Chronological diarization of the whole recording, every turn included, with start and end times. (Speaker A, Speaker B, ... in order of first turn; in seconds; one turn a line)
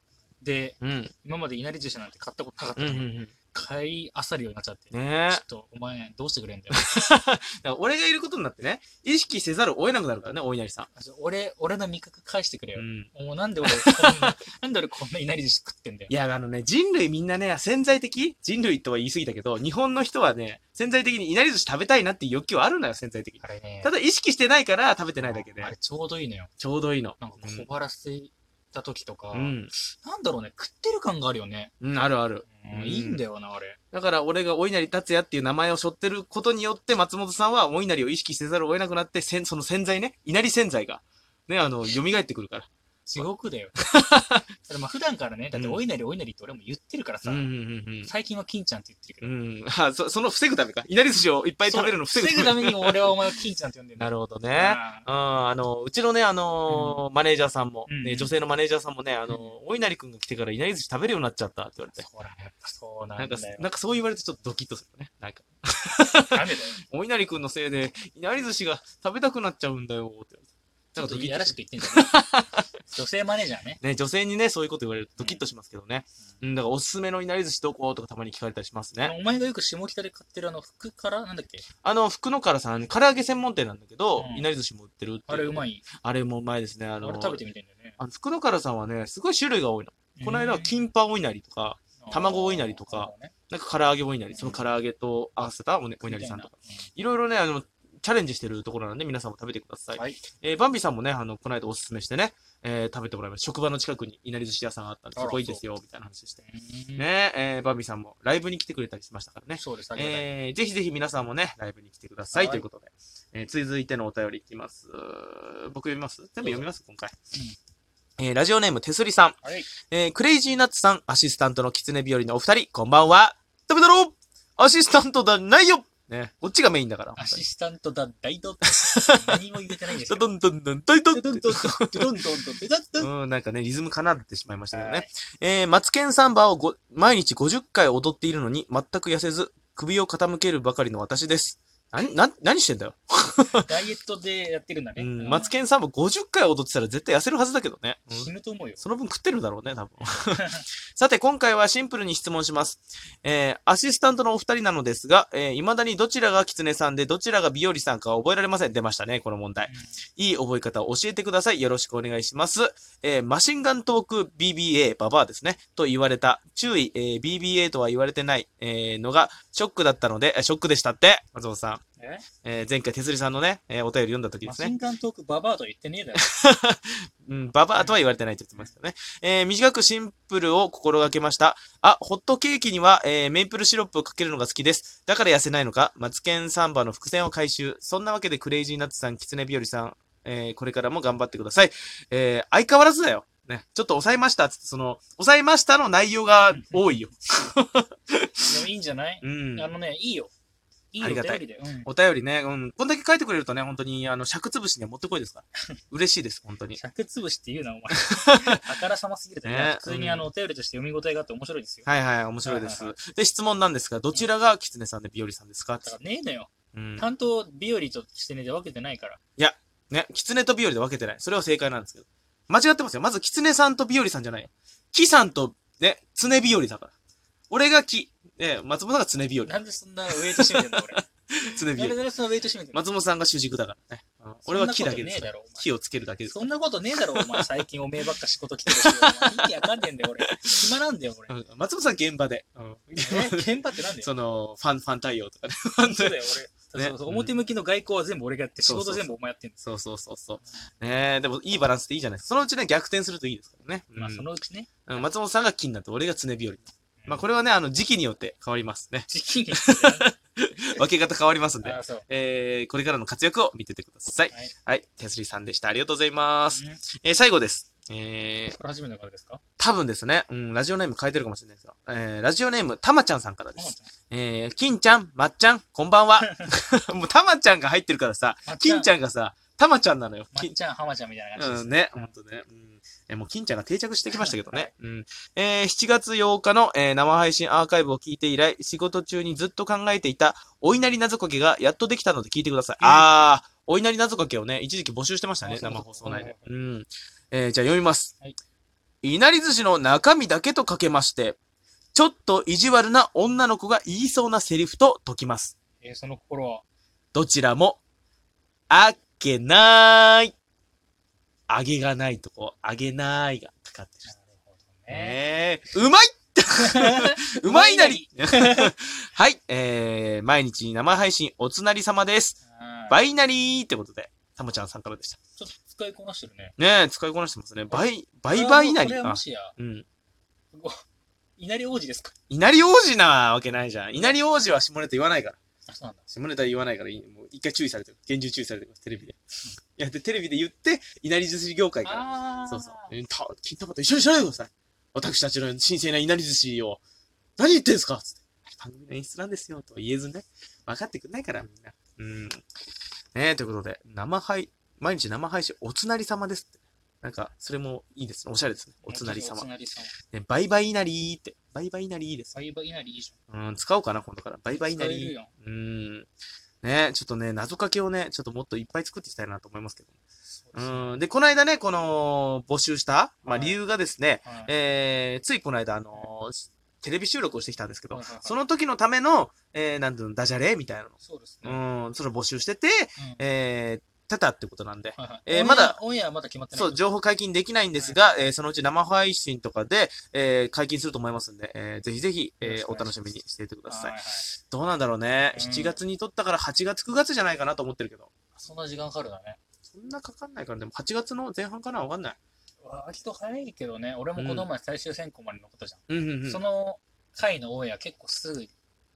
Speaker A: 0.4-7.0
Speaker B: 0.8-1.1
Speaker B: 2.8-3.3
Speaker B: 4.9-5.4
Speaker B: 6.7-10.9
Speaker A: 10.9-16.1
Speaker B: 12.8-13.1
Speaker B: 13.7-14.4
Speaker B: 16.1-25.8
Speaker A: 23.4-23.9
Speaker A: 25.2-26.5
Speaker B: 26.6-27.7
Speaker A: 27.2-31.7
Speaker B: 29.3-29.7
Speaker B: 31.8-33.2
Speaker A: 32.5-33.8
Speaker B: 33.9-43.3
Speaker A: 43.1-43.7
Speaker B: 43.8-44.5
Speaker A: 44.6-47.5
Speaker B: 45.5-45.8
Speaker B: 47.2-48.1
Speaker A: 48.0-49.3
Speaker B: 49.2-53.1
Speaker A: 51.7-55.1
Speaker B: 54.0-62.0
Speaker A: 56.7-57.0
Speaker A: 57.9-58.3
Speaker A: 59.3-59.6
Speaker A: 62.0-63.7
Speaker B: 63.2-72.5
Speaker A: 66.3-66.8
Speaker A: 71.0-72.2
Speaker A: 72.9-73.8
Speaker B: 73.8-79.2
Speaker A: 79.0-81.7
Speaker B: 81.8-87.4
Speaker A: 84.2-84.5
Speaker A: 85.3-85.8
Speaker A: 87.0-88.0
Speaker B: 88.0-106.4
Speaker A: 90.2-90.8
Speaker A: 92.0-93.3
Speaker A: 94.3-94.7
Speaker A: 96.0-96.9
Speaker A: 100.0-100.2
Speaker A: 105.2-105.6
Speaker A: 106.4-107.1
Speaker B: 107.0-117.1
Speaker A: 109.6-110.3
Speaker A: 112.3-112.7
Speaker A: 116.4-116.7
Speaker B: 118.2-127.4
Speaker A: 119.4-119.7
Speaker A: 127.2-130.3
Speaker B: 128.8-129.3
Speaker B: 129.9-132.2
Speaker A: 131.1-133.1
Speaker B: 133.0-143.7
Speaker A: 134.7-135.1
Speaker A: 143.6-145.6
Speaker B: 145.0-171.8
Speaker A: 148.1-148.8
Speaker A: 150.0-150.7
Speaker A: 159.7-159.9
Speaker A: 172.0-172.2
Speaker B: 172.4-174.7
Speaker A: 174.4-176.3
Speaker B: 176.2-198.6
Speaker A: 196.5-196.8
Speaker A: 198.5-200.3
Speaker B: 199.2-199.7
Speaker A: 200.9-201.9
Speaker B: 201.0-206.8
Speaker A: 206.7-211.9
Speaker B: 208.3-208.6
Speaker B: 209.4-210.3
Speaker B: 211.9-215.9
Speaker A: 212.4-212.9
Speaker A: 215.8-219.2
Speaker B: 216.7-217.1
Speaker B: 219.4-226.9
Speaker B: 227.5-229.5
Speaker A: 229.5-231.0
Speaker B: 230.1-232.0
Speaker A: 231.7-232.8
Speaker B: 232.7-236.4
Speaker A: 234.5-235.7
Speaker A: 236.3-241.3
Speaker B: 237.1-237.5
Speaker B: 238.8-239.4
Speaker B: 240.2-240.6
Speaker B: 241.3-247.3
Speaker A: 243.0-244.1
Speaker A: 245.8-249.6
Speaker B: 248.6-249.1
Speaker B: 249.6-254.2
Speaker A: 254.0-255.0
Speaker B: 254.9-268.6
Speaker A: 259.1-260.1
Speaker A: 261.6-262.1
Speaker A: 266.5-266.8
Speaker A: 268.5-269.4
Speaker B: 269.6-280.5
Speaker A: 273.6-273.9
Speaker A: 276.2-276.5
Speaker A: 278.5-278.9
Speaker A: 280.3-282.1
Speaker B: 281.4-298.1
Speaker A: 284.1-284.7
Speaker A: 292.8-293.1
Speaker A: 295.4-296.5
Speaker B: 299.0-301.4
Speaker B: 301.9-305.6
Speaker A: 305.8-306.6
Speaker B: 307.1-307.8
Speaker B: 308.7-310.3
Speaker B: 311.5-314.1
Speaker A: 314.1-315.2
Speaker B: 314.9-322.4
Speaker A: 316.6-318.7
Speaker A: 322.4-323.0
Speaker B: 322.9-325.2
Speaker A: 325.4-326.6
Speaker B: 326.6-329.9
Speaker A: 327.7-329.6
Speaker A: 330.5-330.8
Speaker A: 331.4-332.1
Speaker B: 332.3-335.4
Speaker A: 335.7-336.0
Speaker B: 336.1-339.2
Speaker B: 339.8-346.8
Speaker A: 341.8-342.9
Speaker B: 347.4-352.4
Speaker B: 353.1-359.5
Speaker A: 358.8-359.9
Speaker B: 360.1-362.3
Speaker A: 362.3-363.2
Speaker B: 363.3-366.1
Speaker A: 364.5-365.3
Speaker B: 366.6-369.9
Speaker A: 370.3-371.0
Speaker B: 370.6-385.8
Speaker A: 373.3-373.6
Speaker A: 374.2-374.5
Speaker A: 377.9-378.4
Speaker A: 381.0-381.6
Speaker A: 383.0-383.2
Speaker A: 385.0-386.8
Speaker B: 386.5-398.1
Speaker A: 387.8-388.3
Speaker A: 392.4-393.0
Speaker A: 393.7-394.3
Speaker A: 395.3-395.8
Speaker A: 398.4-399.4
Speaker B: 399.7-402.2
Speaker A: 402.6-408.5
Speaker B: 404.2-404.5
Speaker B: 405.9-406.4